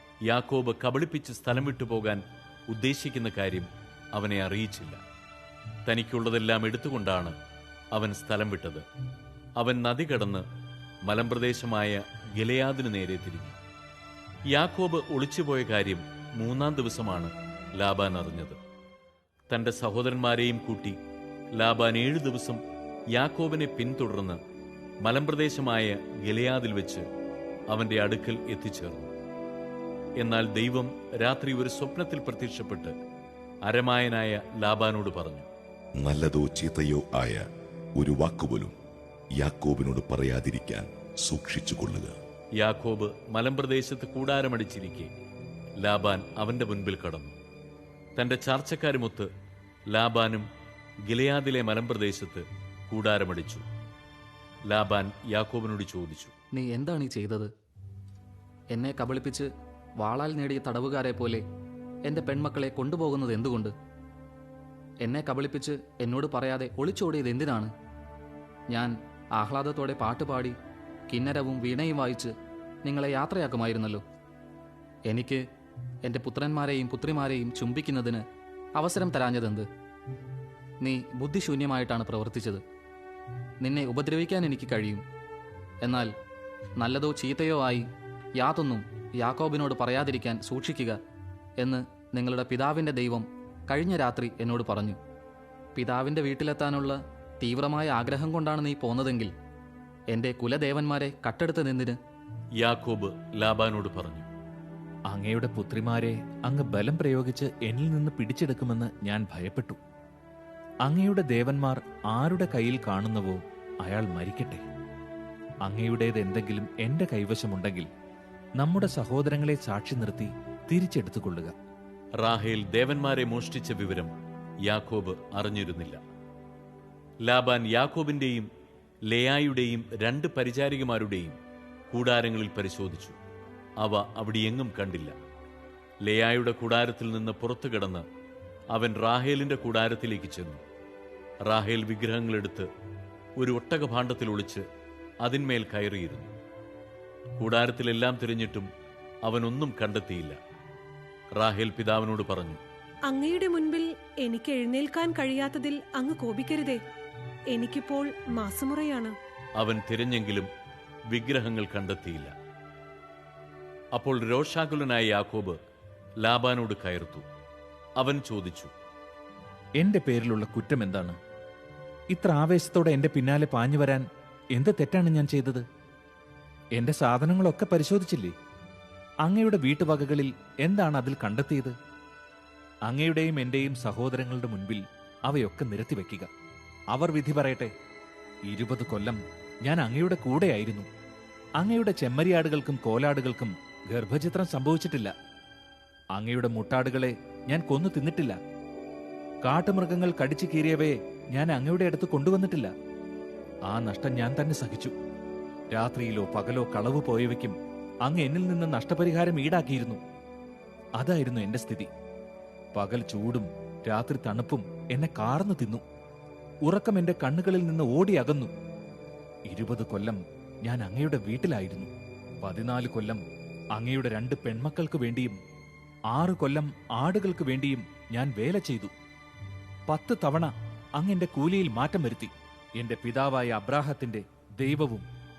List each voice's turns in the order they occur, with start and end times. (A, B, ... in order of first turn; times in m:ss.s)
0:00.3-0:05.0 A
0:05.9-0:07.3 A
0:07.9-0:08.8 A
0:09.6-0:10.4 A
0:11.1-0:13.6 A
0:14.5-0:18.6 A
0:19.5-0:21.0 A
0:21.6-0:22.6 A
0:23.1-0:24.4 A
0:25.0-0:27.0 A
0:27.7-0:29.1 A
0:30.2-0:32.9 A
0:33.7-0:35.5 A
0:36.0-0:37.4 B
0:38.0-0:38.7 B
0:39.4-0:42.1 B
0:42.6-0:45.1 A
0:45.8-0:47.3 A
0:48.2-0:49.3 A
0:49.9-0:50.5 A
0:51.1-0:53.6 A
0:54.7-0:56.3 A
0:56.5-0:57.5 C
0:58.7-1:01.4 C
1:02.0-1:03.7 C
1:05.0-1:07.7 C
1:08.7-1:10.5 C
1:11.1-1:12.3 C
1:12.8-1:14.0 C
1:15.1-1:15.4 C
1:16.0-1:18.2 C
1:18.8-1:19.7 C
1:20.8-1:22.6 C
1:23.6-1:25.0 C
1:25.8-1:26.1 C
1:26.8-1:27.8 C
1:28.4-1:31.0 C
1:31.6-1:35.0 C
1:35.8-1:39.3 C
1:40.1-1:42.0 C
1:42.6-1:44.3 A
1:45.1-1:49.8 D
1:50.8-1:54.6 D
1:55.6-1:57.9 D
1:58.6-2:01.5 D
2:02.2-2:04.1 A
2:04.7-2:06.0 A
2:07.3-2:08.5 A
2:09.1-2:11.4 A
2:11.9-2:13.2 A
2:13.8-2:15.1 A
2:16.0-2:18.0 A
2:18.7-2:20.6 A
2:21.5-2:22.7 A
2:23.4-2:24.6 A
2:25.2-2:26.3 A
2:27.4-2:28.7 A
2:29.2-2:30.4 A
2:31.4-2:32.6 A
2:33.1-2:36.8 E
2:37.5-2:39.1 E
2:39.6-2:40.5 A
2:41.1-2:42.3 A
2:43.9-2:45.6 A
2:46.2-2:47.2 A
2:48.0-2:48.7 A
2:49.8-2:51.2 D
2:52.1-2:55.6 D
2:56.8-2:58.3 D
2:59.2-3:01.7 D
3:02.9-3:06.3 D
3:06.9-3:07.7 D
3:08.5-3:10.9 D
3:11.6-3:15.1 D
3:16.2-3:18.4 D
3:19.4-3:22.7 D
3:23.7-3:24.9 D
3:25.7-3:30.0 D
3:31.0-3:31.9 D
3:32.8-3:35.8 D
3:36.6-3:38.5 D
3:39.5-3:41.9 D
3:42.4-3:43.2 D
3:43.8-3:45.4 D
3:46.1-3:48.9 D
3:49.9-3:55.1 D